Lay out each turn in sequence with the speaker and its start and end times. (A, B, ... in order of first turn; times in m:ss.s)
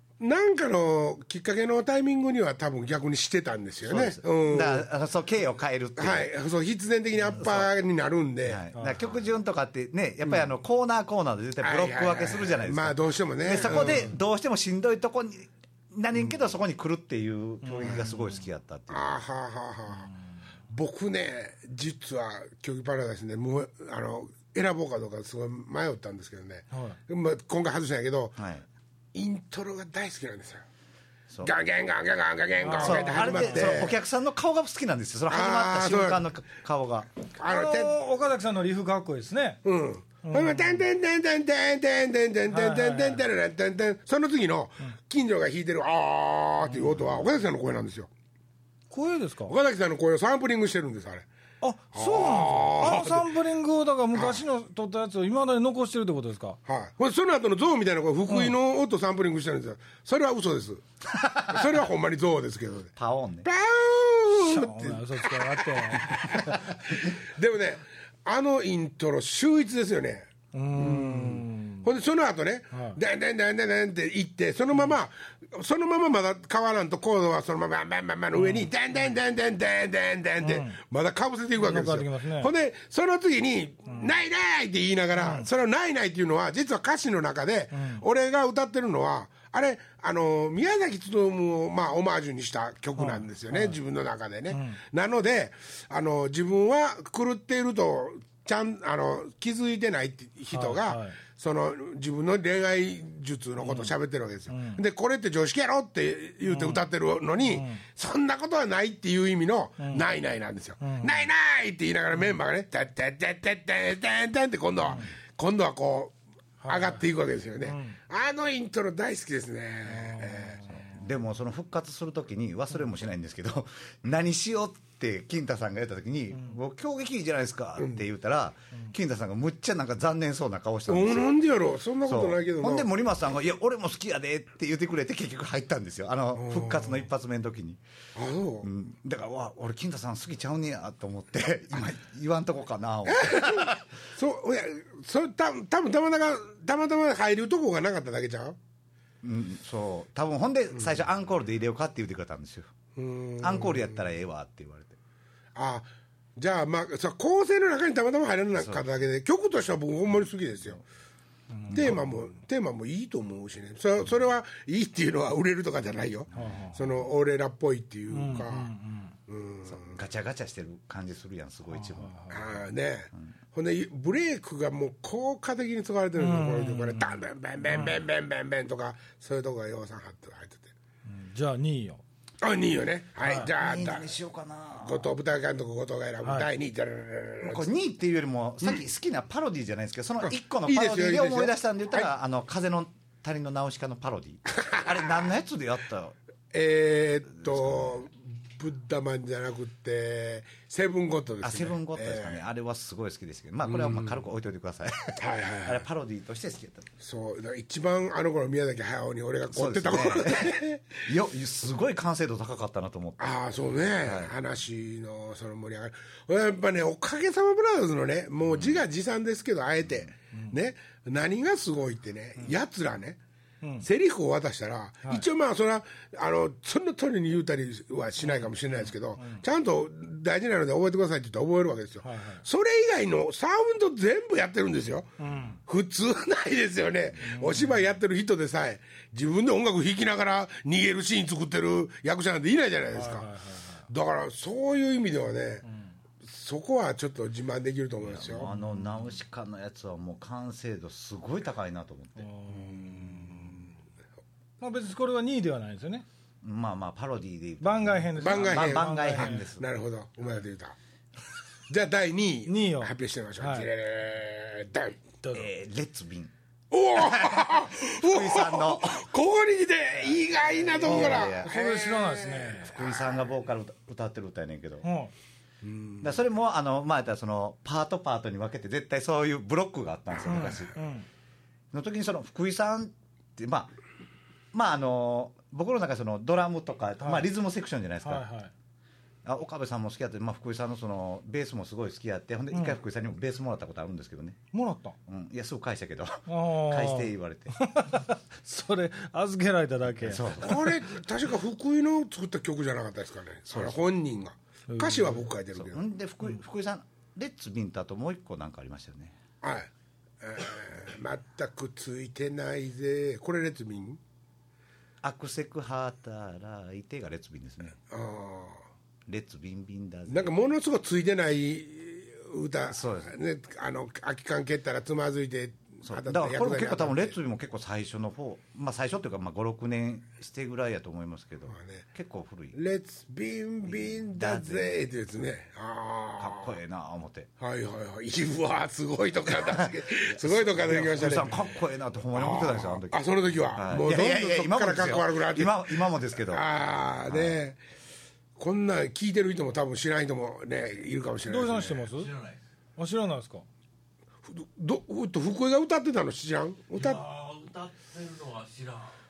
0:00.2-0:04.9 A
0:03.8-0:06.3 B
0:06.0-0:09.2 A
0:07.3-0:07.7 B
0:08.4-0:19.1 B
0:08.7-0:09.0 C
0:10.2-0:10.5 A
0:11.6-0:14.1 A
0:17.6-0:18.4 C
0:18.9-0:20.1 A
0:20.7-0:28.4 A
0:26.7-0:27.0 C
0:28.4-0:28.6 B
0:29.1-0:30.6 A
0:31.4-0:34.0 A
0:32.6-0:33.8 C
0:32.7-0:37.1 B
0:35.3-0:36.2 A
0:37.4-0:37.9 A
0:37.4-0:39.6 C
0:39.6-0:48.1 A
0:40.2-0:40.8 C
0:42.5-0:43.2 C
0:46.7-0:47.0 C
0:48.9-0:49.5 C
0:49.5-0:51.2 A
0:51.6-0:56.6 C
0:51.9-0:53.3 A
0:54.1-0:54.4 A
0:56.6-1:00.8 A
0:58.3-0:58.5 C
1:01.4-1:02.9 A
1:03.0-1:03.5 B
1:03.4-1:56.1 A
1:04.3-1:06.8 C
1:10.5-1:11.8 C
1:12.7-1:13.0 C
1:18.3-1:18.7 C
1:20.4-1:20.8 C
1:21.6-1:22.5 C
1:25.2-1:25.5 C
1:27.7-1:28.0 C
1:33.0-1:33.8 C
1:34.5-1:34.8 C
1:40.5-1:41.2 C
1:43.6-1:43.9 C
1:44.5-1:44.8 C
1:46.4-1:46.8 C
1:47.4-1:47.8 C
1:50.8-1:51.3 C
1:56.6-1:57.0 C
1:56.7-2:00.6 A
1:57.6-1:58.0 C
1:59.8-2:00.8 C
2:00.7-2:11.3 B
2:07.8-2:08.0 A
2:10.9-2:12.9 A
2:12.0-2:17.8 B
2:16.3-2:17.0 A
2:18.1-2:18.7 A
2:18.6-2:23.8 B
2:23.0-2:28.6 A
2:29.2-2:32.7 B
2:30.7-2:31.0 A
2:33.0-2:34.0 A
2:33.4-2:35.0 B
2:35.5-2:40.8 A
2:38.5-2:38.8 B
2:41.5-2:42.0 C
2:41.7-2:48.7 A
2:41.7-2:42.0 B
2:46.3-2:46.8 C
2:48.1-2:49.1 C
2:49.3-2:50.0 A
2:49.7-2:52.6 B
2:51.7-2:52.4 C
2:52.3-3:00.7 A
2:56.2-2:58.0 C
3:01.0-3:02.0 C
3:02.4-3:04.1 A
3:03.2-3:03.5 C
3:03.4-3:05.1 B
3:04.8-3:07.7 A
3:06.2-3:06.5 C
3:07.4-3:16.2 B
3:10.2-3:12.1 A
3:14.6-3:15.3 A
3:16.5-3:22.4 A
3:17.6-3:17.9 B
3:21.4-3:26.9 B
3:23.6-3:24.2 A
3:25.2-3:25.9 A
3:27.0-3:31.0 A
3:29.5-3:33.4 B
3:33.2-3:43.2 A
3:34.0-3:34.3 B
3:38.5-3:38.8 B
3:43.6-3:43.9 C
3:43.8-3:55.1 A
3:48.2-3:49.4 C
3:52.0-3:52.4 C
3:55.2-3:55.6 C
3:55.6-4:03.3 A
3:57.2-3:57.8 C
4:02.9-4:03.9 C
4:03.9-4:05.6 A
4:05.6-4:05.9 C
4:06.2-4:08.5 A
4:08.0-4:12.3 B
4:08.4-4:09.0 C
4:12.2-4:13.6 C
4:12.5-4:13.6 A
4:14.6-4:16.0 C
4:16.4-4:19.7 B
4:17.6-4:19.4 C
4:18.2-4:20.8 A
4:21.7-4:25.0 A
4:22.5-4:23.7 C
4:25.2-4:25.5 C
4:25.3-4:26.3 B
4:26.7-4:33.2 A
4:27.0-4:29.0 B
4:30.5-4:31.5 B
4:30.8-4:32.8 C
4:32.6-4:34.9 B
4:34.8-4:35.1 C
4:35.6-4:36.2 A
4:36.0-4:40.7 B
4:40.2-4:40.6 A
4:40.2-4:41.0 C
4:41.7-4:43.8 B
4:44.5-4:48.3 B
4:47.0-4:47.3 C
4:48.0-4:48.5 C
4:49.2-4:54.4 B
4:52.5-4:52.8 C
4:54.5-4:55.0 C
4:55.0-4:57.5 B
4:56.3-5:00.7 C
5:00.0-5:00.7 B
5:00.4-5:05.8 A
5:04.7-5:05.2 C
5:05.5-5:09.2 B
5:09.4-5:09.7 A
5:10.2-5:14.0 A
5:15.0-5:17.8 B
5:17.8-5:18.6 A
5:19.1-5:20.3 B
5:20.1-5:27.2 A
5:22.7-5:23.1 B
5:25.8-5:32.6 B
5:31.5-5:31.8 A
5:32.5-5:36.6 A
5:33.7-5:34.7 B
5:36.2-5:37.3 B
5:37.4-5:41.5 A
5:39.4-5:43.0 B
5:42.1-5:47.6 A
5:43.5-5:46.5 B
5:47.1-5:47.4 B
5:48.4-5:51.9 A
5:51.2-5:52.1 C
5:51.9-5:52.4 D
5:52.8-5:53.4 C
5:54.2-5:57.0 A
5:56.8-5:59.0 D